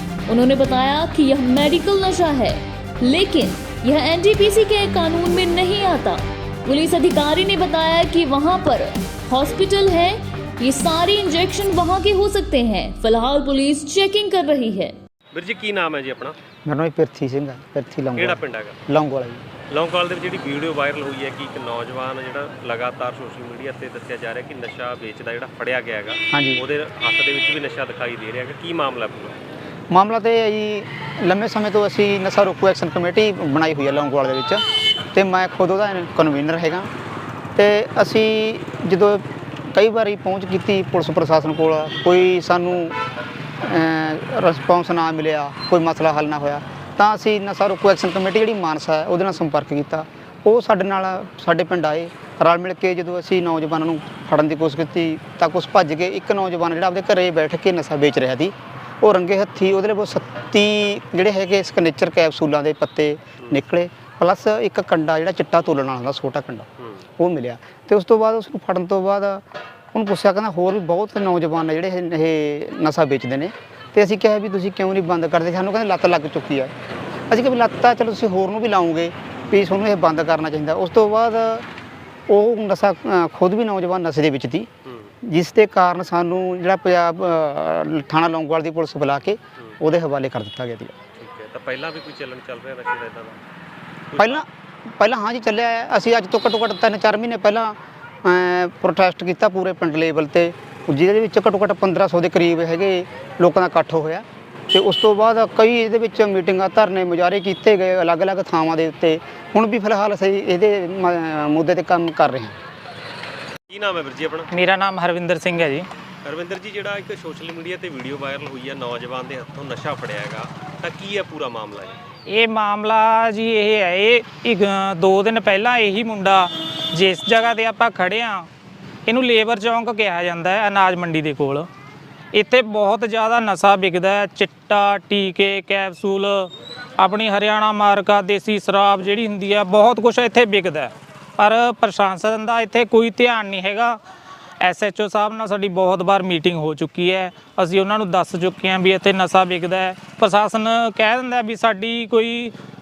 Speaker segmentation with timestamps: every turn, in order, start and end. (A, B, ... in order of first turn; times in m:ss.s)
0:00.3-0:15.0 A
0:15.3-0:16.4 B
0:16.6-0:19.5 C
0:18.2-0:18.8 B
0:19.7-0:29.4 B
0:26.3-0:26.6 C
0:29.9-0:34.6 C
0:35.1-0:36.9 C
0:37.6-0:39.2 C
0:39.7-0:43.0 C
0:43.6-1:09.4 C
1:06.8-1:07.0 B
1:09.9-1:16.7 C
1:17.3-1:21.6 C
1:22.3-1:24.7 C
1:24.8-1:25.1 B
1:25.2-1:30.9 C
1:31.1-1:33.4 B
1:34.1-1:34.4 B
1:34.2-1:52.6 C
1:53.7-1:54.5 B
1:54.5-1:55.9 D
1:56.2-2:02.0 B
2:02.3-2:08.5 D
2:09.1-2:11.7 D
2:12.3-2:24.0 D
2:24.6-2:32.5 D